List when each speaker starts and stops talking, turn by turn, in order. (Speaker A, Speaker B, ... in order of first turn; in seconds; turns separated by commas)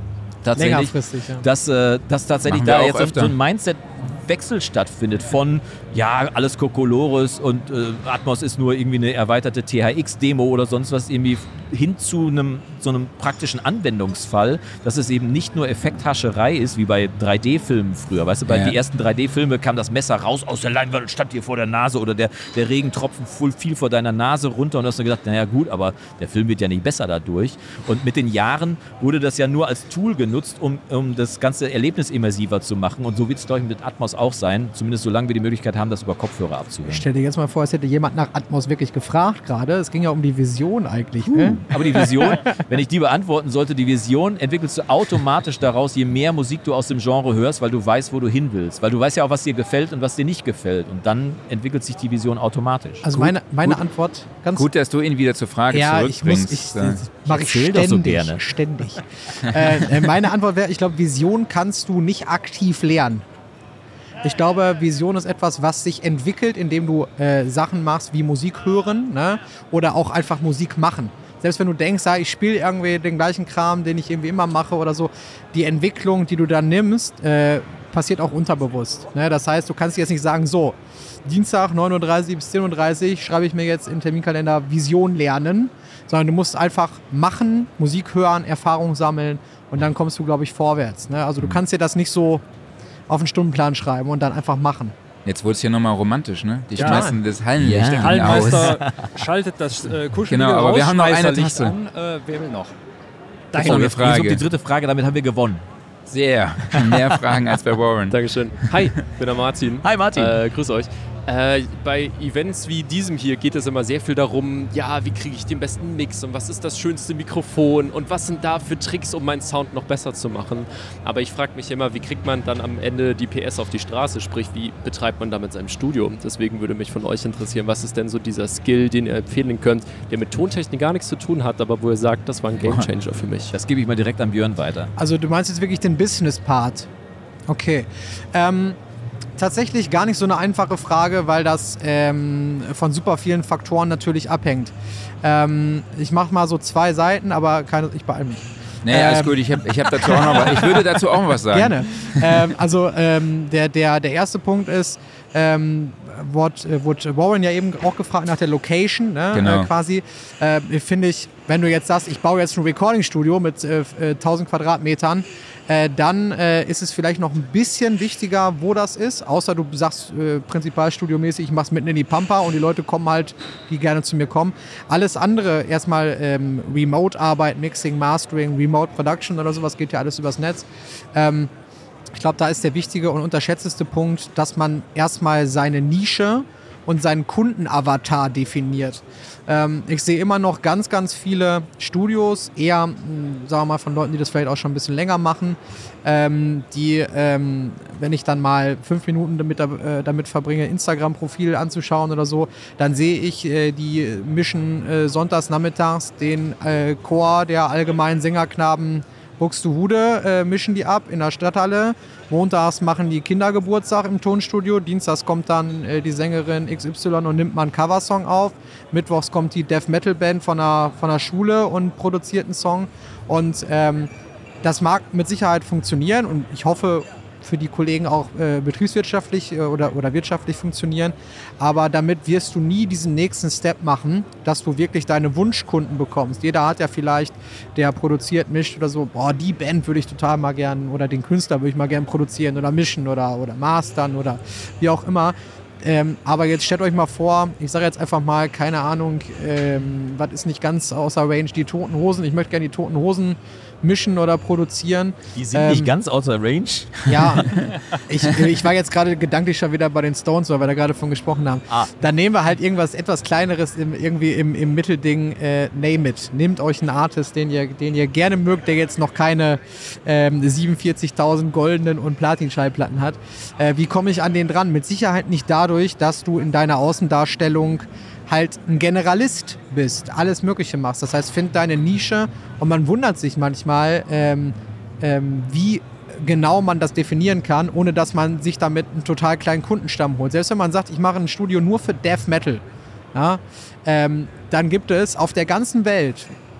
Speaker A: 0.4-37.0, Speaker B: 0.5-1.4, Speaker C: 2.4-3.4, Speaker C: 18.5-18.8, Speaker B: 36.9-42.5, Speaker A: 41.2-53.0, Speaker B: 53.0-54.7, Speaker C: 53.1-53.8, Speaker C: 54.5-57.0, Speaker B: 55.7-63.2, Speaker A: 57.2-58.4, Speaker B: 64.2-92.4, Speaker B: 93.1-94.9, Speaker C: 95.2-98.8, Speaker D: 96.8-97.0, Speaker B: 96.8-97.2, Speaker A: 97.6-99.1, Speaker D: 98.0-102.7, Speaker C: 100.3-101.7, Speaker D: 103.5-103.9, Speaker C: 103.5-104.4, Speaker A: 103.6-105.7, Speaker C: 106.1-108.7, Speaker A: 106.7-107.0, Speaker E: 108.1-133.5, Speaker A: 109.8-110.4, Speaker A: 133.5-134.9, Speaker B: 135.0-136.9, Speaker B: 137.5-138.8, Speaker B: 139.4-151.0, Speaker C: 148.8-152.5, Speaker B: 151.5-181.5, Speaker C: 159.3-159.7, Speaker B: 182.1-224.1, Speaker B: 224.6-255.9, Speaker A: 255.3-257.6, Speaker B: 257.1-292.6, Speaker B: 293.1-296.3